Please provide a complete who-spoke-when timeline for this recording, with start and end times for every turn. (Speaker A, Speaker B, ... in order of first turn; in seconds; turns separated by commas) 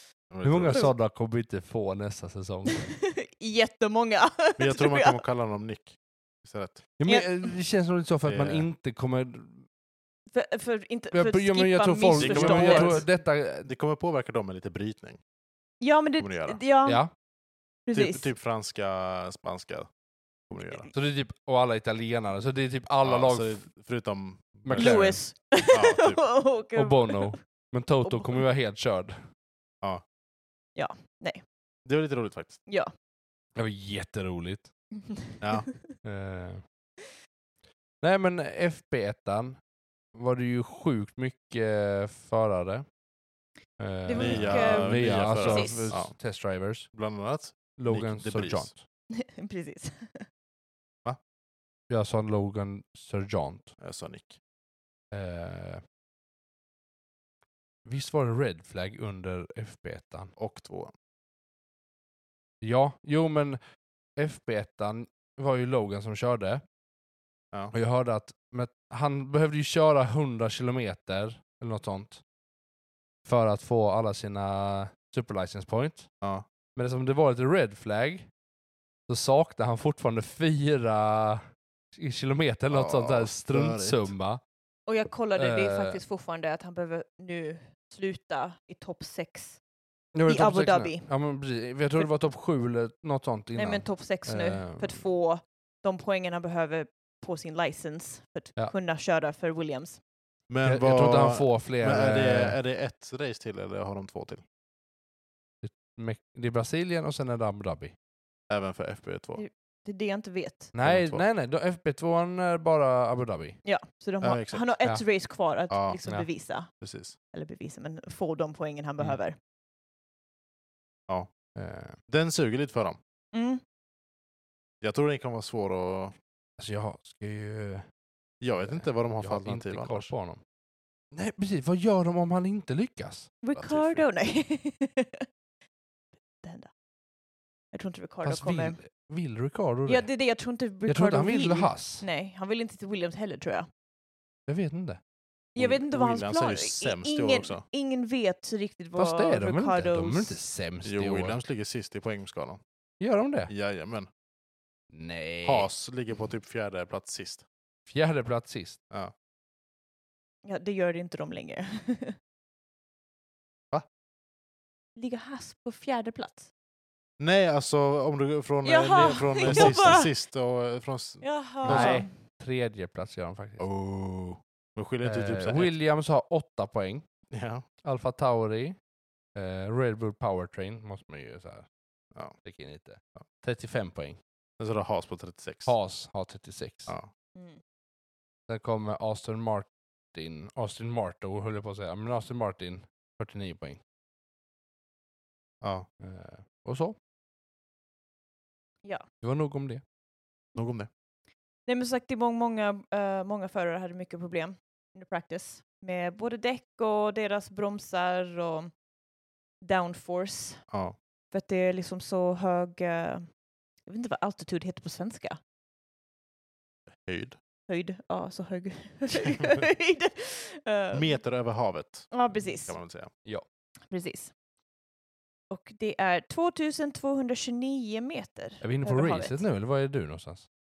Speaker A: 0.3-0.9, Speaker B: 0.4-2.8, Speaker C: 2.7-5.2, Speaker A: 4.6-6.9, Speaker B: 7.0-9.7, Speaker C: 7.0-7.5, Speaker A: 8.2-8.7, Speaker C: 10.3-13.1, Speaker B: 11.1-13.7, Speaker A: 12.2-13.1, Speaker A: 13.6-15.2, Speaker C: 15.8-17.0, Speaker A: 16.2-16.6, Speaker B: 16.8-17.1, Speaker C: 17.9-18.2, Speaker A: 17.9-19.9, Speaker A: 20.5-20.9, Speaker C: 20.6-20.9, Speaker B: 20.9-23.6, Speaker A: 23.0-25.1, Speaker B: 24.6-25.2, Speaker C: 24.7-27.4, Speaker A: 25.7-26.2, Speaker B: 26.8-29.2, Speaker C: 28.0-28.4, Speaker C: 30.8-31.4, Speaker A: 31.8-32.6, Speaker B: 33.5-34.7, Speaker C: 35.0-35.9, Speaker A: 35.4-35.7, Speaker B: 36.0-36.6, Speaker B: 38.0-39.6, Speaker B: 40.1-42.8, Speaker B: 43.8-46.9, Speaker C: 44.0-45.9, Speaker A: 44.1-46.1, Speaker A: 46.9-48.7, Speaker B: 47.8-48.8, Speaker C: 49.1-50.2, Speaker B: 51.9-53.7, Speaker A: 53.8-54.4, Speaker B: 55.1-55.8, Speaker B: 57.8-60.3, Speaker A: 60.4-60.9, Speaker B: 62.6-63.6, Speaker B: 64.2-66.6, Speaker B: 67.7-72.2, Speaker B: 73.2-76.1, Speaker B: 76.8-78.3, Speaker B: 79.1-84.4, Speaker A: 82.7-84.1, Speaker C: 84.9-89.6, Speaker B: 85.4-86.0, Speaker B: 90.1-95.0, Speaker C: 90.3-91.1, Speaker C: 93.5-100.0, Speaker A: 100.5-104.4, Speaker B: 100.6-102.6, Speaker B: 105.6-107.9, Speaker A: 108.5-109.4, Speaker C: 109.3-110.7, Speaker B: 110.7-113.6, Speaker A: 110.8-111.2, Speaker C: 113.6-116.7, Speaker A: 114.2-114.7, Speaker A: 115.7-116.0, Speaker A: 116.7-117.1, Speaker C: 117.3-119.4, Speaker B: 121.5-122.0, Speaker A: 122.1-123.0, Speaker C: 123.3-123.6, Speaker A: 124.8-126.1, Speaker B: 126.6-127.8, Speaker A: 128.4-130.1, Speaker B: 128.7-130.4, Speaker B: 131.1-133.4, Speaker C: 133.4-135.3, Speaker A: 133.6-134.0, Speaker C: 136.4-136.7, Speaker C: 137.7-138.8, Speaker B: 138.2-140.1, Speaker C: 139.8-143.7, Speaker B: 140.9-142.0, Speaker B: 144.5-145.0, Speaker A: 145.6-147.6, Speaker C: 145.6-150.4, Speaker B: 149.0-151.4, Speaker A: 150.8-152.6, Speaker B: 153.0-153.5, Speaker A: 153.5-154.1, Speaker B: 154.9-155.7, Speaker A: 155.4-157.4, Speaker B: 157.9-158.8, Speaker C: 160.4-162.2, Speaker C: 164.9-166.5, Speaker A: 167.2-172.0, Speaker C: 168.6-170.1, Speaker B: 169.4-169.9, Speaker C: 171.2-172.1, Speaker B: 171.7-173.6, Speaker A: 173.6-175.7, Speaker B: 175.0-177.0, Speaker A: 177.3-177.6, Speaker B: 177.8-178.8, Speaker B: 179.3-181.7, Speaker B: 182.4-184.2, Speaker A: 184.6-185.7, Speaker B: 185.7-186.9, Speaker C: 187.3-187.6, Speaker B: 188.5-193.8, Speaker A: 195.6-195.9, Speaker B: 196.0-196.9, Speaker B: 199.2-199.8, Speaker A: 200.6-200.9, Speaker C: 201.7-208.7, Speaker C: 209.6-210.6, Speaker A: 210.7-210.9, Speaker C: 211.3-213.3, Speaker C: 213.8-215.4, Speaker A: 216.9-217.3, Speaker C: 217.7-221.2, Speaker A: 220.9-223.1, Speaker C: 222.1-222.8, Speaker C: 223.9-224.3, Speaker C: 225.5-229.4, Speaker B: 228.6-230.5